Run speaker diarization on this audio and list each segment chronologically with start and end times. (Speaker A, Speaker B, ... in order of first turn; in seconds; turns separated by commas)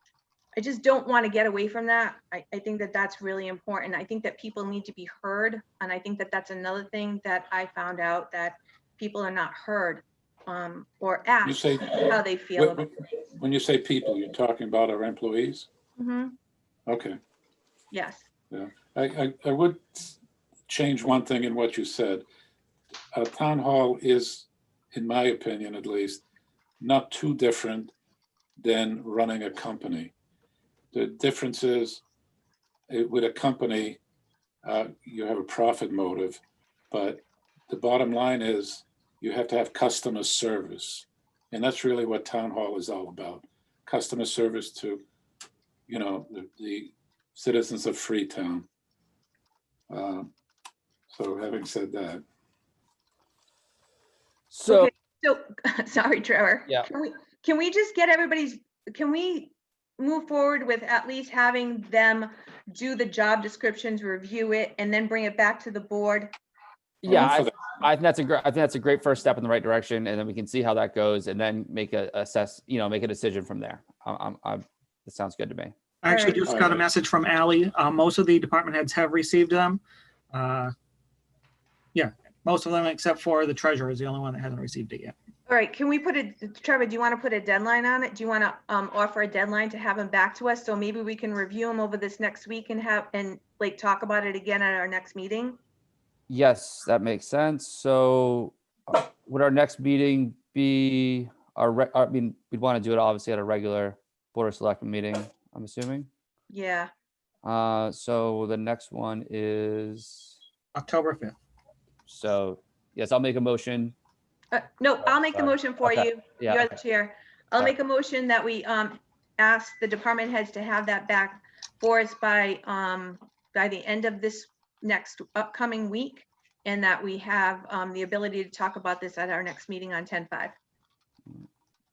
Speaker A: 0.6-13.0, Speaker B: 11.4-15.7, Speaker A: 16.0-16.3, Speaker B: 16.9-17.2, Speaker A: 17.9-18.2, Speaker B: 18.5-22.2, Speaker B: 23.1-26.2, Speaker B: 26.8-27.9, Speaker B: 28.6-30.1, Speaker B: 30.9-32.0, Speaker B: 32.9-34.0, Speaker B: 34.6-45.0, Speaker B: 45.9-48.7, Speaker B: 49.9-50.3, Speaker B: 51.1-52.2, Speaker C: 54.5-54.9, Speaker A: 54.6-66.3, Speaker C: 67.0-75.7, Speaker B: 67.1-67.6, Speaker D: 76.0-80.7, Speaker A: 76.1-76.5, Speaker B: 76.5-76.8, Speaker D: 81.9-85.1, Speaker A: 85.5-95.6, Speaker C: 96.3-106.1, Speaker A: 106.5-106.9, Speaker C: 107.4-110.3, Speaker D: 110.8-111.3, Speaker C: 112.1-113.9, Speaker A: 114.5-130.6, Speaker C: 115.3-116.8